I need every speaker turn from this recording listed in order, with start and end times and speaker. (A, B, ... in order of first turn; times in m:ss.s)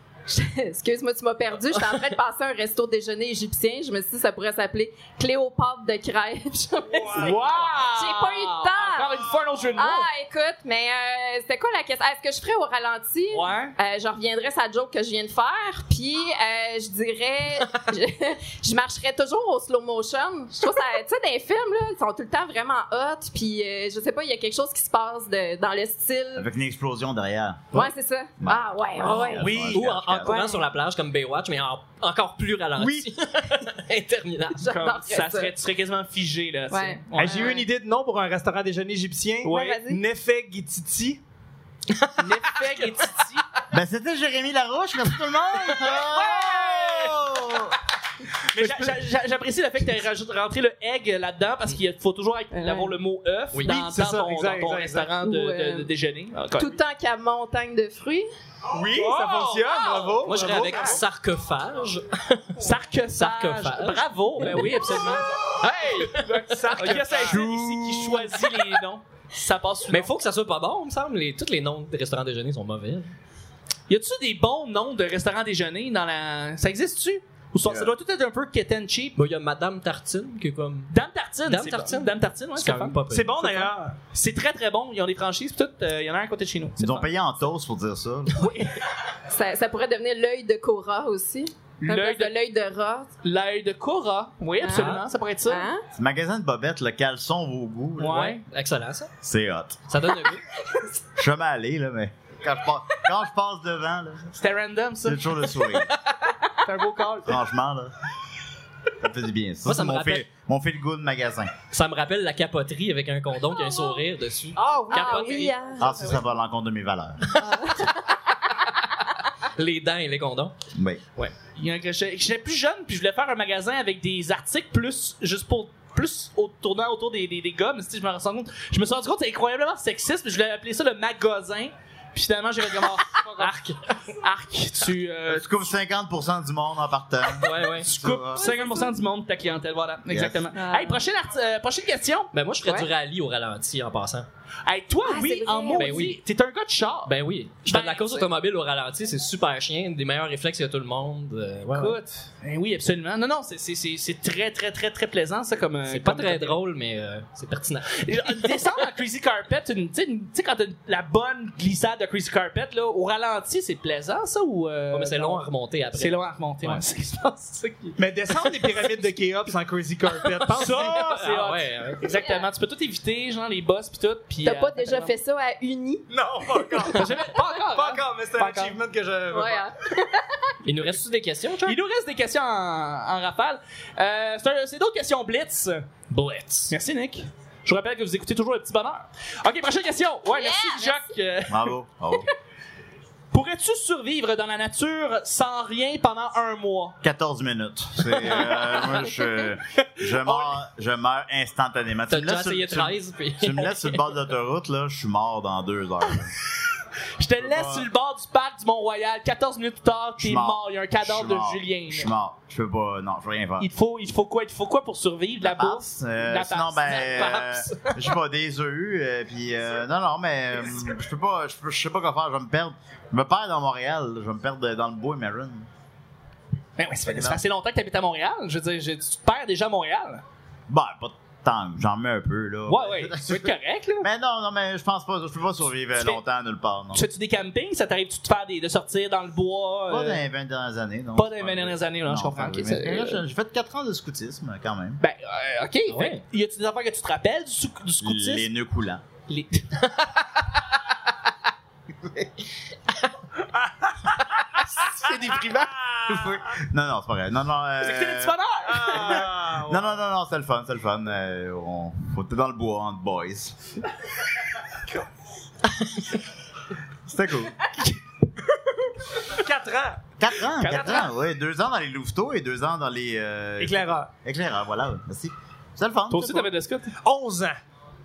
0:00.3-0:09.2 A
0:06.9-0:07.9 B
0:07.1-0:10.1 C
0:09.8-0:26.5 A
0:13.3-0:13.7 C
0:26.4-0:27.9 D
0:27.7-0:29.6 A
0:28.4-0:30.4 D
0:29.0-0:34.6 E
0:29.4-0:29.9 C
0:30.2-0:30.6 A
0:32.8-0:33.1 B
0:34.6-0:35.5 A
0:34.6-0:37.6 C
0:36.7-0:37.6 A
0:37.1-0:41.2 B
0:39.4-0:40.0 A
0:41.9-0:42.3 E
0:42.2-0:43.4 C
0:43.7-0:47.8 D
0:45.8-0:47.3 C
0:48.5-0:56.7 C
0:48.5-0:49.0 B
0:52.5-0:52.9 A
0:53.5-0:53.8 E
0:53.7-0:55.1 B
0:55.2-0:55.9 A
0:56.6-0:58.3 A
0:58.7-1:01.0 B
0:59.0-1:00.1 C
1:00.2-1:07.4 E
1:00.7-1:01.0 C
1:02.6-1:05.5 C
1:06.1-1:10.1 C
1:06.5-1:08.3 B
1:09.9-1:13.1 E
1:13.9-1:19.2 C
1:19.2-1:20.9 E
1:20.9-1:27.1 C
1:21.5-1:23.5 E
1:23.1-1:24.0 B
1:26.8-1:28.5 D
1:28.4-1:28.7 C
1:29.3-1:33.1 A
1:31.8-1:32.3 C
1:33.2-1:35.7 C
1:34.6-1:35.8 A
1:34.7-1:35.0 E
1:35.9-1:38.3 D
1:38.0-1:38.4 C
1:38.0-1:39.1 E
1:39.2-1:39.8 D
1:39.9-1:40.4 E
1:41.2-1:44.3 D
1:44.3-1:45.8 C
1:45.0-1:45.9 D
1:46.6-1:47.4 C
1:47.2-1:47.9 D
1:49.0-1:51.5 D
1:49.6-1:50.2 E
1:51.7-1:55.6 E
1:54.6-1:56.1 A
1:54.7-1:55.4 C
1:55.8-1:57.4 D
1:57.4-1:58.5 A
1:59.5-2:00.5 E
2:00.7-2:01.0 D
2:01.5-2:15.5 C
2:13.2-2:13.7 E
2:15.3-2:18.8 D
2:17.4-2:17.9 E
2:17.4-2:22.3 C
2:20.1-2:20.5 D
2:20.5-2:21.0 A
2:22.3-2:24.3 E
2:24.6-2:27.1 C
2:25.0-2:26.1 A
2:25.8-2:26.2 E
2:27.0-2:32.0 E
2:27.7-2:28.2 C
2:31.7-2:36.6 C
2:35.9-2:38.6 E
2:38.0-2:45.4 C
2:44.9-2:46.8 E
2:45.9-2:48.4 C
2:48.0-2:51.2 B
2:50.5-2:55.1 C
2:50.5-2:52.0 E
2:52.2-2:52.5 A
2:54.4-2:56.0 A
2:56.1-2:57.1 B
2:56.8-2:58.8 C
2:57.7-2:59.6 B
2:59.3-3:00.4 A
3:00.6-3:01.8 E
3:01.6-3:05.9 C
3:06.1-3:06.7 E
3:06.7-3:11.7 C
3:10.3-3:11.1 A
3:11.5-3:12.3 D
3:13.3-3:17.0 C
3:17.0-3:26.3 D
3:18.3-3:18.8 C
3:20.2-3:20.6 C
3:22.1-3:24.0 E
3:27.2-3:32.1 C
3:27.4-3:27.9 D
3:30.2-3:33.7 D
3:33.6-3:38.1 C
3:35.4-3:45.7 D
3:46.8-3:50.2 C
3:47.0-3:47.4 D
3:50.7-3:57.0 D
3:52.7-3:54.1 C
3:56.9-4:00.2 C
3:59.9-4:05.0 D
4:01.1-4:03.2 C
4:05.0-4:08.5 C
4:05.9-4:06.2 E
4:08.0-4:09.0 D
4:09.3-4:10.6 C
4:12.0-4:12.3 D
4:14.6-4:15.8 C
4:16.1-4:23.6 D
4:17.8-4:19.3 C
4:18.6-4:19.9 B
4:27.0-4:27.6 D
4:29.3-4:30.0 B
4:30.2-4:36.5 D
4:30.6-4:31.1 C
4:33.6-4:34.1 B
4:36.1-4:36.9 C
4:37.0-4:37.6 B